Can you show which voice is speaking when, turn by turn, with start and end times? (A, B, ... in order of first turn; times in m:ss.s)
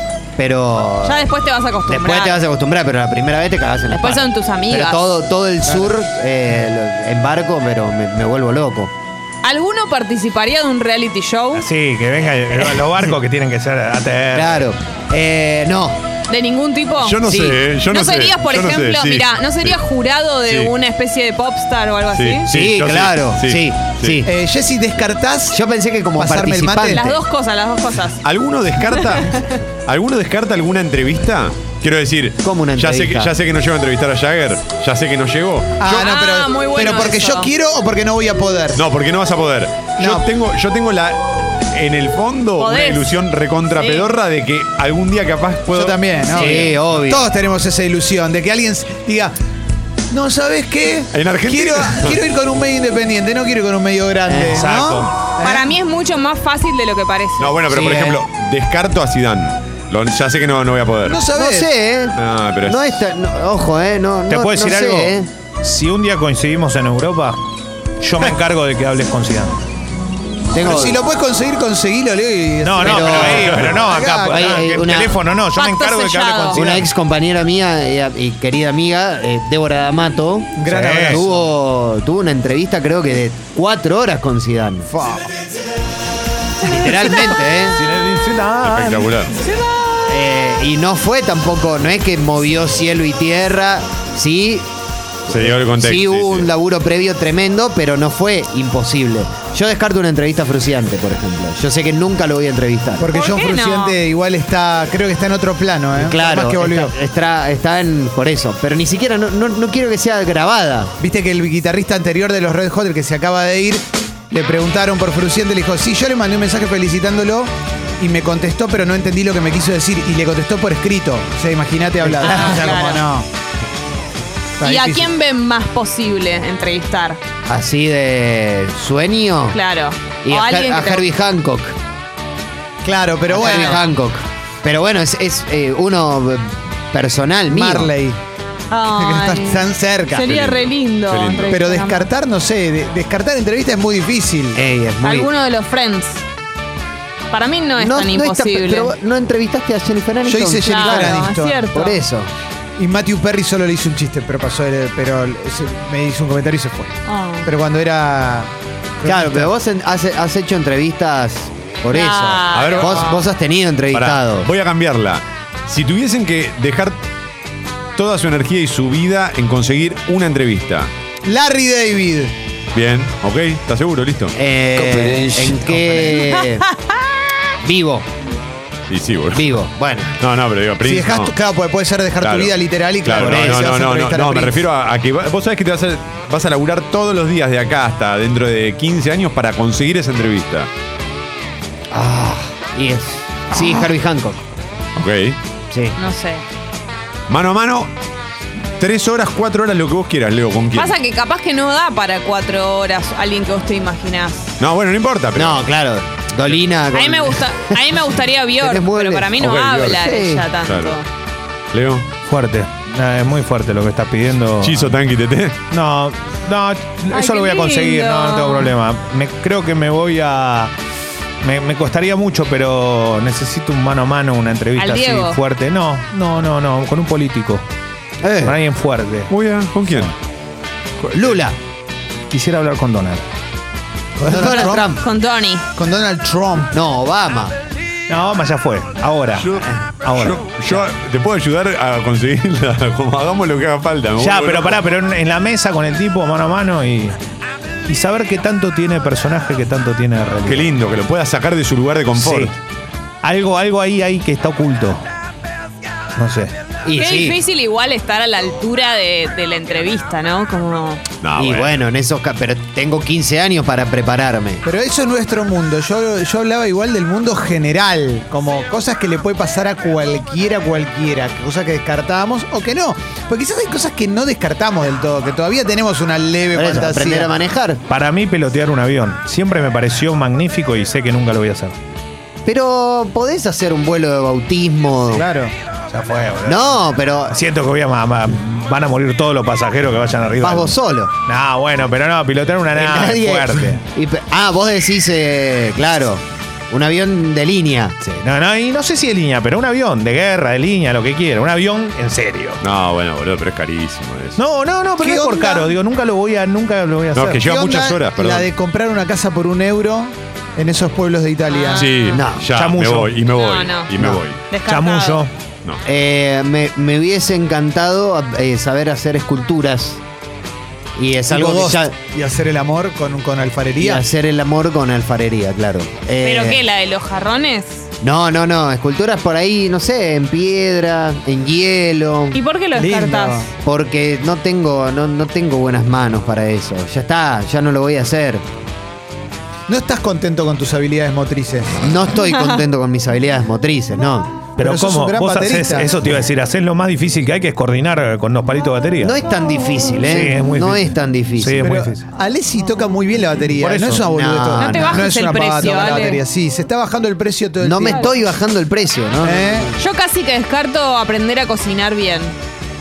0:00.4-0:01.3 A
0:01.0-0:02.4 B
0:01.9-0:08.9 A
0:03.9-0:05.1 B
0:09.4-0:11.6 B
0:11.5-0:14.6 C
0:14.3-0:16.0 A
0:16.3-0:17.3 B
0:17.0-0:19.8 D
0:17.2-0:17.6 A
0:17.8-0:22.5 B
0:20.4-0:20.7 D
0:22.1-0:24.2 D
0:22.5-0:24.3 A
0:24.2-0:25.6 E
0:25.5-0:27.2 A
0:26.2-0:27.0 E
0:26.8-0:28.2 B
0:28.2-0:35.8 D
0:28.8-0:29.5 B
0:32.4-0:33.3 A
0:35.8-0:38.8 E
0:35.8-0:37.5 B
0:38.7-0:46.7 D
0:40.0-0:40.3 E
0:42.6-0:43.1 B
0:43.8-0:44.1 B
0:45.7-0:49.3 E
0:46.3-0:47.2 A
0:50.1-0:55.7 E
0:51.1-0:52.2 D
0:54.3-0:54.7 A
0:54.4-0:55.1 C
0:55.4-0:57.6 B
0:57.4-1:01.2 D
0:57.7-0:58.2 A
1:01.0-1:01.7 E
1:01.3-1:05.3 A
1:02.2-1:03.0 D
1:04.3-1:07.4 C
1:08.0-1:09.6 C
1:10.5-1:11.0 A
1:10.6-1:14.7 E
1:12.6-1:16.9 C
1:12.8-1:15.2 A
1:15.6-1:16.6 B
1:16.5-1:24.9 A
1:20.6-1:21.3 E
1:20.6-1:21.2 C
1:24.9-1:25.3 E
1:26.6-1:27.8 A
1:27.7-1:29.2 C
1:28.6-1:29.3 D
1:30.0-1:34.6 A
1:35.3-1:36.5 D
1:35.3-1:43.1 A
1:43.0-1:46.9 E
1:43.1-1:44.0 B
1:45.9-1:50.9 A
1:51.0-2:03.3 E
2:02.2-2:03.0 B
2:04.6-2:05.1 E
2:04.6-2:07.2 B
2:07.5-2:09.6 A
2:09.5-2:11.0 B
2:10.2-2:11.8 A
2:12.8-2:13.8 E
2:13.3-2:17.9 A
2:13.4-2:13.8 B
2:17.5-2:18.2 E
2:18.7-2:22.1 B
2:19.0-2:20.3 E
2:20.2-2:21.6 D
2:21.5-2:24.6 E
2:24.5-2:25.3 A
2:25.0-2:26.2 B
2:27.3-2:28.9 B
2:27.8-2:32.3 A
2:30.2-2:31.7 E
2:30.6-2:32.0 B
2:32.8-2:39.5 E
2:37.0-2:37.5 B
2:39.0-2:44.5 A
2:41.9-2:43.2 B
2:42.5-2:43.0 D
2:43.9-2:47.0 D
2:48.0-2:50.9 D
2:51.2-2:52.3 E
2:52.7-2:54.3 D
2:54.3-2:56.7 A
2:55.8-2:56.2 E
2:57.6-2:58.1 A
2:58.9-2:59.4 D
2:59.3-3:00.2 A
3:00.2-3:01.3 D
3:00.8-3:04.6 E
3:02.2-3:10.7 D
3:03.2-3:03.7 A
3:11.9-3:14.4 A
3:15.0-3:15.4 D
3:15.7-3:16.0 A
3:16.0-3:16.4 B
3:17.3-3:17.9 D
3:18.8-3:20.9 D
3:20.7-3:24.5 B
3:24.6-3:25.6 D
3:25.3-3:28.0 A
3:26.9-3:31.0 B
3:28.6-3:30.5 A
3:29.4-3:30.0 D
3:30.6-3:31.0 D
3:31.7-3:32.0 D
3:32.2-3:35.0 C
3:34.6-3:35.6 D
3:35.7-3:40.7 C
3:37.1-3:38.7 B
3:41.4-3:47.6 C
3:44.8-3:45.4 B
3:48.2-3:48.6 A
3:48.4-3:49.3 C
3:49.3-3:50.1 D
3:49.9-3:50.1 C
3:51.0-3:51.4 D
3:51.1-3:51.6 A
3:52.3-3:53.2 C
3:54.2-3:54.9 E
3:54.2-3:55.1 A
3:54.3-3:55.6 B
3:55.7-3:56.7 E
3:56.7-3:57.6 A
3:58.1-3:59.5 C
3:59.4-4:04.8 D
4:00.0-4:00.9 C
4:04.2-4:07.2 C
4:07.9-4:10.7 C
4:10.4-4:12.5 D
4:12.1-4:12.5 C
4:13.2-4:15.0 C
4:16.2-4:16.5 C
4:16.8-4:17.4 A
4:16.9-4:21.0 B
4:21.2-4:21.7 D
4:21.4-4:24.6 A
4:24.6-4:37.3 E
4:36.5-4:37.8 A
4:37.9-4:41.8 C
4:42.4-4:45.2 A
4:45.1-4:45.5 E
4:45.9-4:53.8 C
4:46.4-4:47.4 A
4:50.4-4:51.1 A
4:52.7-4:58.0 A
4:58.0-5:02.6 C
5:02.6-5:04.4 D
5:04.4-5:07.4 C
5:05.0-5:05.7 E
5:07.1-5:08.5 D
5:07.4-5:12.0 E
5:11.5-5:12.2 B
5:11.8-5:14.4 D
5:12.1-5:12.5 A
5:12.5-5:13.1 C
5:13.3-5:13.9 B
5:14.5-5:15.2 B
5:14.6-5:15.3 C
5:15.8-5:20.0 A
5:21.0-5:21.9 A
5:21.3-5:24.0 E
5:23.8-5:26.6 A
5:26.2-5:27.9 B
5:28.0-5:32.4 A
5:32.3-5:33.5 B
5:32.7-5:33.5 E
5:33.6-5:38.4 A
5:39.7-5:41.7 E
5:41.8-5:44.4 A
5:44.6-5:49.2 C
5:44.6-5:45.9 E
5:49.0-5:51.8 A
5:50.0-5:52.0 C
5:51.6-5:58.1 E
5:53.6-5:54.0 C
5:54.0-5:55.1 A
5:54.6-5:56.2 B
5:57.6-5:59.8 A
5:59.2-5:59.7 E
5:59.8-6:02.3 B